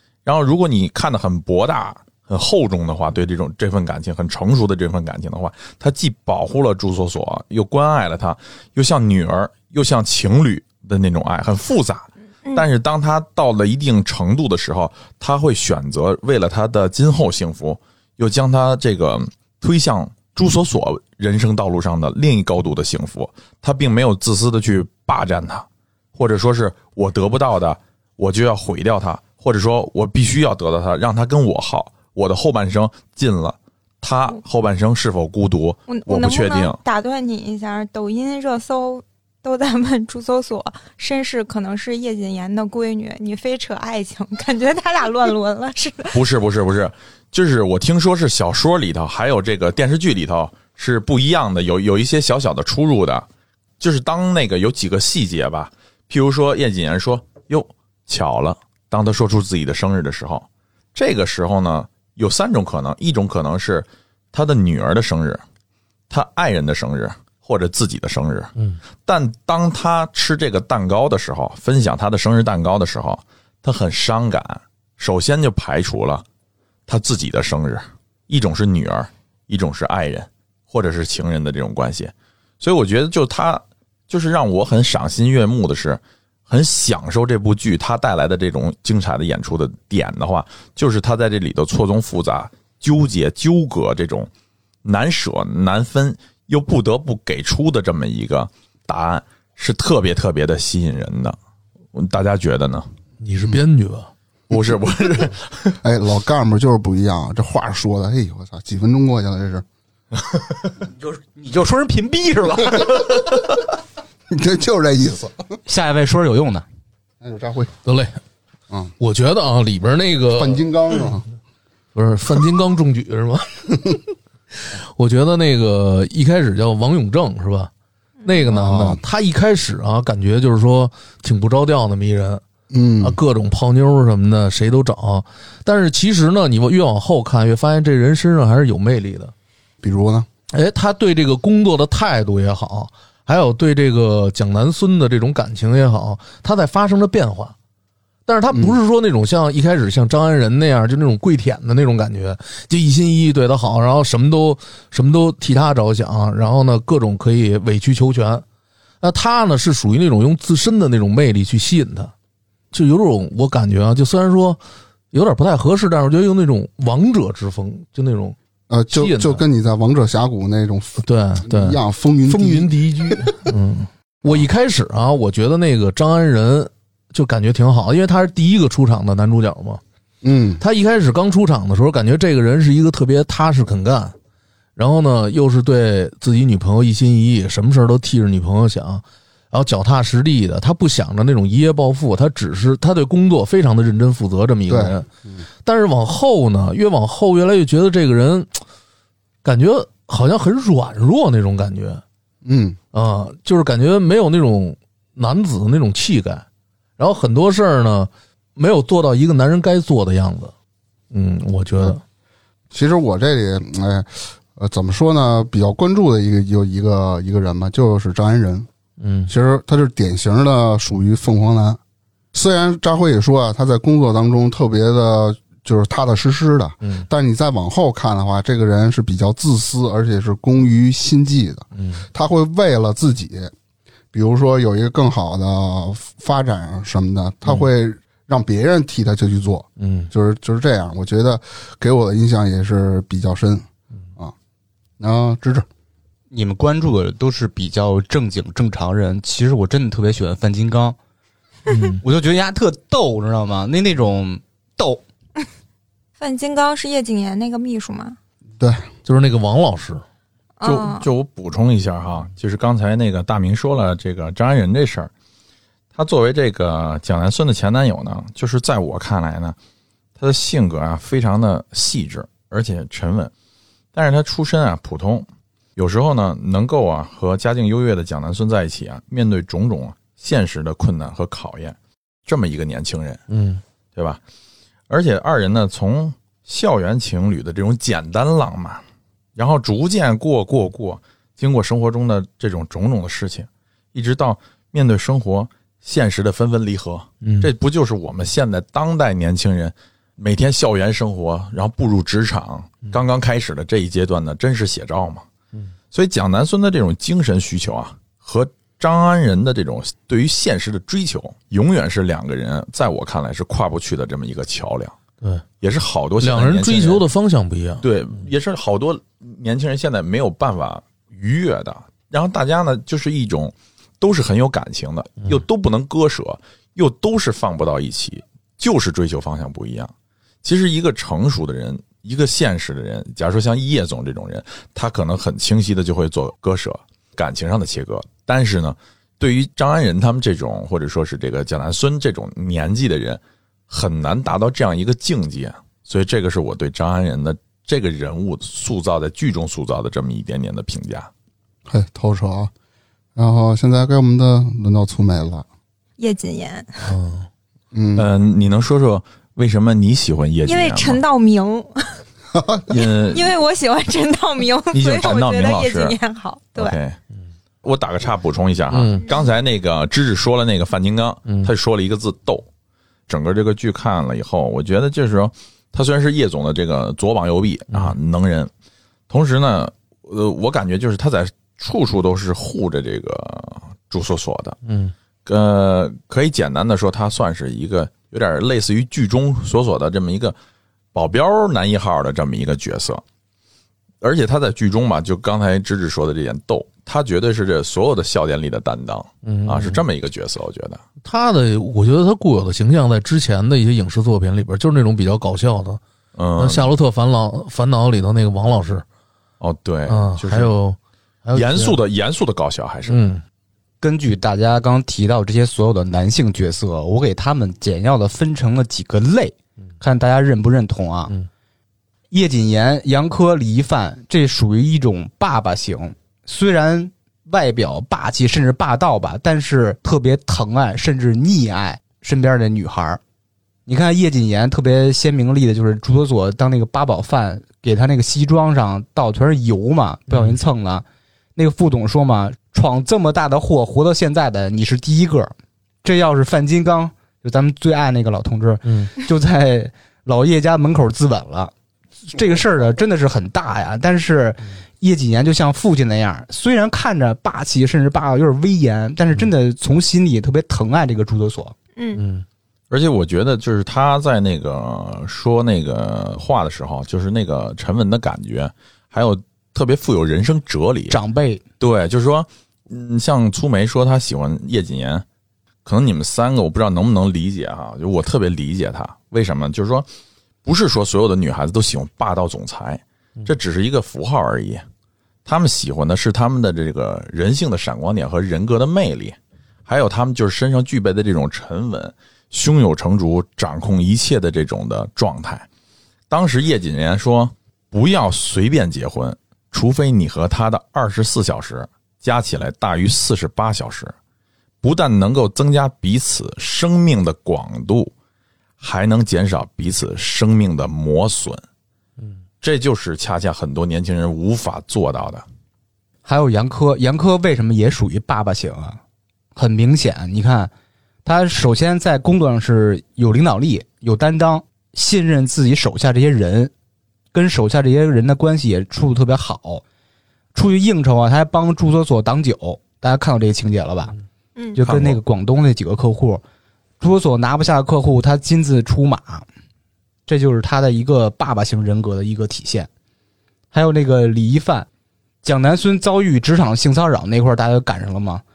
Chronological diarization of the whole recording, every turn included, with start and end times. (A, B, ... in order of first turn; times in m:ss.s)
0:00.2-0:36.8 A
0:35.9-0:46.2 B
0:46.1-0:53.3 A
0:53.8-1:05.4 A
1:06.1-1:08.5 A
1:09.1-1:16.2 A
1:16.9-1:34.3 A
1:34.8-1:41.4 A
1:42.0-1:42.9 A
1:43.2-1:44.1 C
1:44.5-1:45.8 A
1:45.8-1:49.6 D
1:51.0-1:53.0 E
1:54.3-1:55.3 D
1:55.7-1:56.6 E
1:57.2-1:57.7 D
1:57.8-1:58.2 C
1:59.0-2:00.6 C
2:00.4-2:01.2 D
2:02.0-2:03.9 C
2:04.6-2:07.7 C
2:08.2-2:12.4 C
2:08.5-2:09.0 D
2:12.7-2:13.2 D
2:13.0-2:19.3 C
2:19.8-2:20.3 D
2:20.5-2:27.6 C
2:28.3-2:38.4 C
2:39.0-2:42.1 C
2:42.7-2:44.6 C
2:45.1-2:48.4 C
2:48.7-2:53.5 D
2:48.9-2:49.4 C
2:51.0-2:59.8 C
3:00.2-3:00.6 D
3:00.6-3:04.2 C
3:04.8-3:15.1 C
3:14.7-3:15.4 D
3:15.6-3:18.6 C
3:19.4-3:22.0 C
3:22.4-3:22.8 D
3:22.9-3:26.4 C
3:27.0-3:30.5 C
3:31.1-3:32.0 C
3:32.7-3:38.7 D
3:39.0-3:39.3 C
3:39.3-3:41.8 D
3:42.3-3:53.5 D
3:46.8-3:47.1 C
3:51.8-3:52.1 C
3:54.1-4:03.7 D
3:59.8-4:00.1 C
4:05.0-4:05.7 D
4:06.3-4:11.0 E
4:11.7-4:12.0 C
4:12.0-4:15.0 E
4:16.2-4:18.2 B
4:18.6-4:18.9 D
4:19.0-4:20.0 C
4:20.6-4:21.1 B
4:20.6-4:25.1 A
4:26.0-4:29.6 A
4:30.2-4:33.3 A
4:34.0-4:43.2 A
4:43.3-4:43.6 C
4:44.0-4:44.2 A
4:44.9-4:48.8 A
4:49.4-5:05.2 A
4:57.2-4:57.5 C
5:05.9-5:15.0 A
5:15.6-5:17.0 A
5:16.2-5:17.9 C
5:17.8-5:29.9 A
5:30.4-5:51.1 A
5:51.7-5:52.5 D
5:53.2-5:55.4 D
5:56.0-5:56.9 B
5:56.8-5:57.3 C
5:57.7-5:58.1 D
5:58.0-6:01.0 A
6:00.4-6:02.0 B
6:02.4-6:02.6 D
6:02.7-6:03.4 A
6:03.1-6:06.8 B
6:04.7-6:06.0 A
6:06.6-6:07.0 A
6:07.6-6:12.5 A
6:08.7-6:09.1 C
6:13.1-6:18.5 A
6:19.1-6:24.6 A
6:24.6-6:24.9 C
6:25.2-6:30.4 A
6:30.9-6:33.0 A
6:34.0-6:40.8 A
6:39.2-6:39.8 C
6:41.0-6:45.8 C
6:46.2-6:46.7 A
6:46.4-6:48.8 C
6:49.4-6:50.5 A
6:49.9-6:51.8 C
6:51.3-6:53.0 A
6:52.9-6:53.2 C
6:53.8-7:01.1 E
7:02.1-7:13.0 E
7:13.7-7:20.8 E
7:21.4-7:31.5 E
7:28.6-7:28.9 C
7:32.0-7:41.6 E
7:41.8-7:42.0 B
7:42.0-7:42.2 C
7:42.7-7:51.0 A
7:50.9-7:51.4 E
7:51.6-7:55.0 A
7:55.6-7:59.9 A
8:00.4-8:04.6 A
8:05.3-8:15.5 A
8:16.1-8:23.9 A
8:24.6-8:27.9 A
8:28.6-8:31.4 A
8:32.4-8:35.2 A
8:36.0-8:38.8 E
8:39.4-8:40.5 E
8:41.0-8:46.5 E
8:47.1-8:49.6 E
8:50.3-8:54.0 E
8:54.6-8:56.2 E
8:54.7-8:55.0 A
8:56.8-8:59.3 E
9:00.1-9:02.7 E
9:03.5-9:04.7 E
9:05.2-9:08.2 E